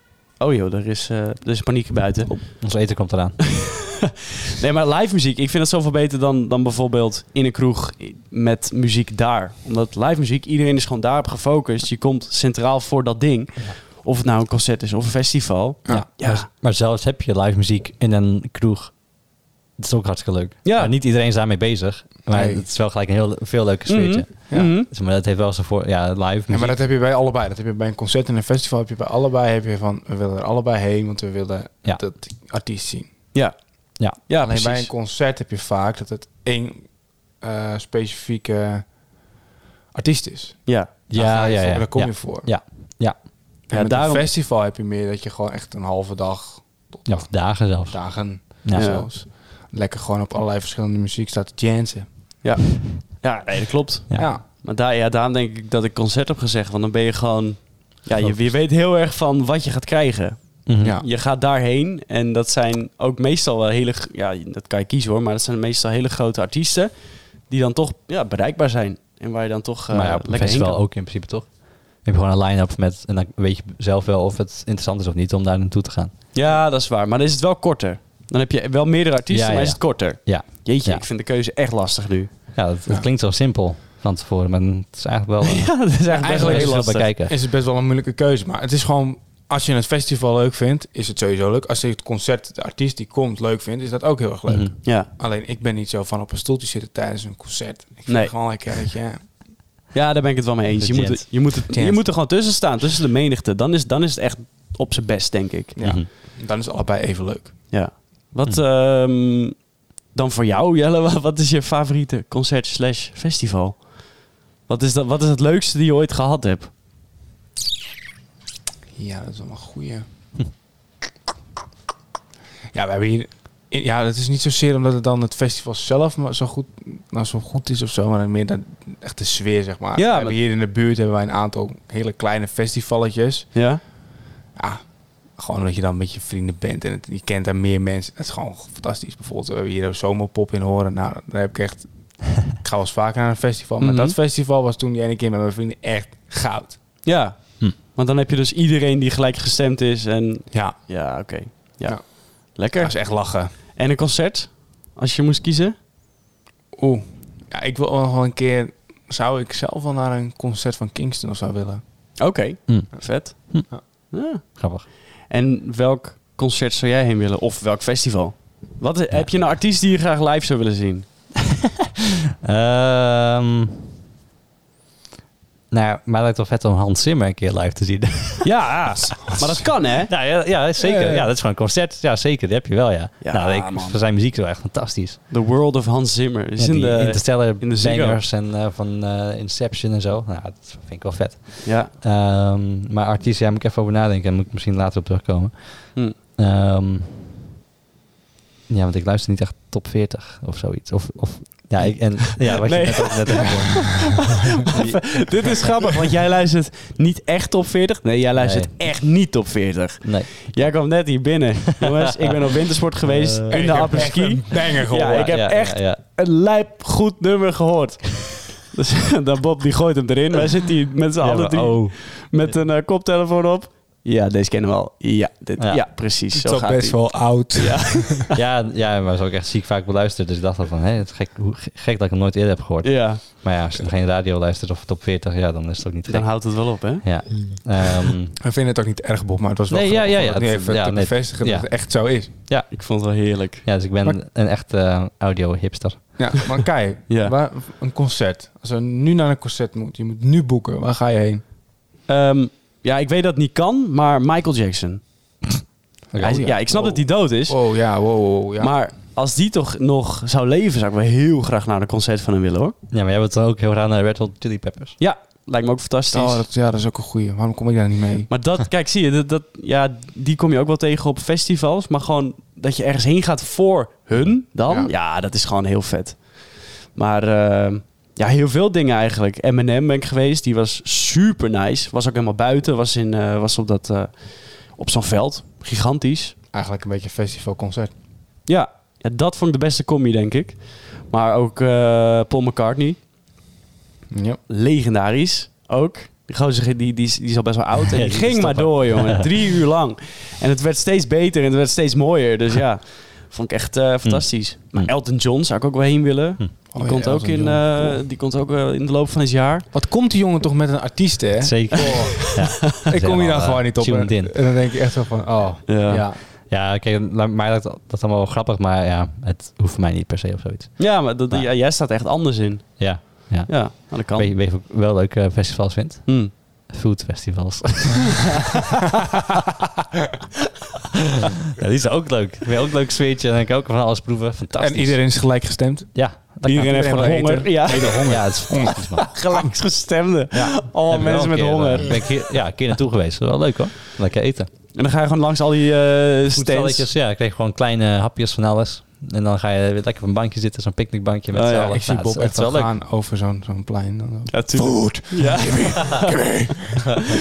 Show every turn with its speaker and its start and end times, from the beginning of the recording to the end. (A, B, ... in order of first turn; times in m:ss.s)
0:00.4-0:02.9 A
0:02.6-0:03.5 B
0:04.6-0:16.5 A
0:15.9-0:26.8 B
0:20.6-0:20.9 A
0:22.3-0:22.6 C
0:23.9-0:24.9 A
0:26.5-0:33.2 C
0:33.3-0:34.9 A
0:34.4-0:39.3 C
0:39.9-0:42.5 C
0:40.6-0:40.9 A
0:41.1-0:43.3 B
0:43.7-0:52.1 C
0:43.7-0:44.2 A
0:47.0-0:49.0 B
0:48.7-0:49.0 A
0:52.4-1:10.8 A
0:54.2-0:54.4 C
1:00.6-1:01.0 B
1:09.9-1:16.2 B
1:16.3-1:22.3 A
1:19.3-1:21.0 B
1:22.5-1:27.3 B
1:25.4-1:27.1 A
1:26.2-1:39.3 C
1:34.5-1:34.7 B
1:34.8-1:35.1 A
1:38.1-1:38.3 A
1:39.9-1:45.8 A
1:40.8-1:41.5 B
1:41.7-1:42.1 C
1:45.8-1:47.7 C
1:45.8-1:46.1 B
1:47.7-1:56.7 A
1:59.0-2:00.0 C
2:02.7-2:13.6 C
2:09.9-2:10.4 A
2:13.5-2:13.8 A
2:14.6-2:26.8 C
2:23.8-2:24.1 A
2:27.0-2:35.8 A
2:30.5-2:30.9 C
2:31.8-2:33.5 C
2:36.7-2:41.8 C
2:42.2-2:51.1 A
2:42.7-2:43.7 B
2:44.3-2:44.9 B
2:52.4-2:53.8 B
2:55.7-2:58.8 B
2:58.4-3:00.1 A
2:59.6-3:05.2 B
3:00.8-3:01.3 C
3:03.2-3:04.0 A
3:05.3-3:08.2 A
3:06.6-3:17.3 B
3:11.6-3:11.9 A
3:18.7-3:25.7 B
3:22.6-3:48.3 A
3:28.4-3:28.8 B
3:30.0-3:30.7 B
3:33.0-3:34.1 B
3:33.5-3:35.3 C
3:35.1-3:36.0 B
3:41.2-3:42.5 B
3:45.6-3:45.8 B
3:46.3-3:48.2 C
3:48.3-3:58.4 B
3:52.8-3:53.2 A
3:56.1-3:57.0 A
3:58.3-4:02.3 C
3:59.7-4:02.7 B
4:02.7-4:03.6 A
4:03.6-4:06.3 B
4:06.2-4:11.4 C
4:07.1-4:07.3 A
4:12.1-4:15.1 A
4:16.1-4:18.8 C
4:16.1-4:16.5 B
4:16.2-4:17.8 A
4:18.6-4:22.7 A
4:22.9-4:25.0 B
4:25.0-4:26.4 A
4:26.1-4:28.3 C
4:28.3-4:46.4 A
4:46.5-4:47.9 C
4:48.4-4:53.0 A
4:54.1-4:54.4 C
4:54.5-5:09.7 A
4:57.9-4:59.2 B
5:04.0-5:04.9 B
5:06.7-5:08.0 C
5:09.7-5:16.2 C
5:11.4-5:14.4 B
5:11.9-5:12.5 A
5:15.7-5:16.0 A
5:16.2-5:21.5 B
5:20.8-5:24.3 A
5:22.8-5:28.2 B
5:26.0-5:26.3 A
5:31.5-5:35.0 B
5:34.6-5:39.5 C
5:35.9-5:37.1 B
5:36.4-5:42.2 A
5:37.8-5:39.1 B
5:40.3-5:44.5 B
5:44.7-5:46.9 A
5:46.3-5:52.7 B
5:51.3-5:51.8 A
5:51.7-5:56.9 C
5:54.3-5:56.9 A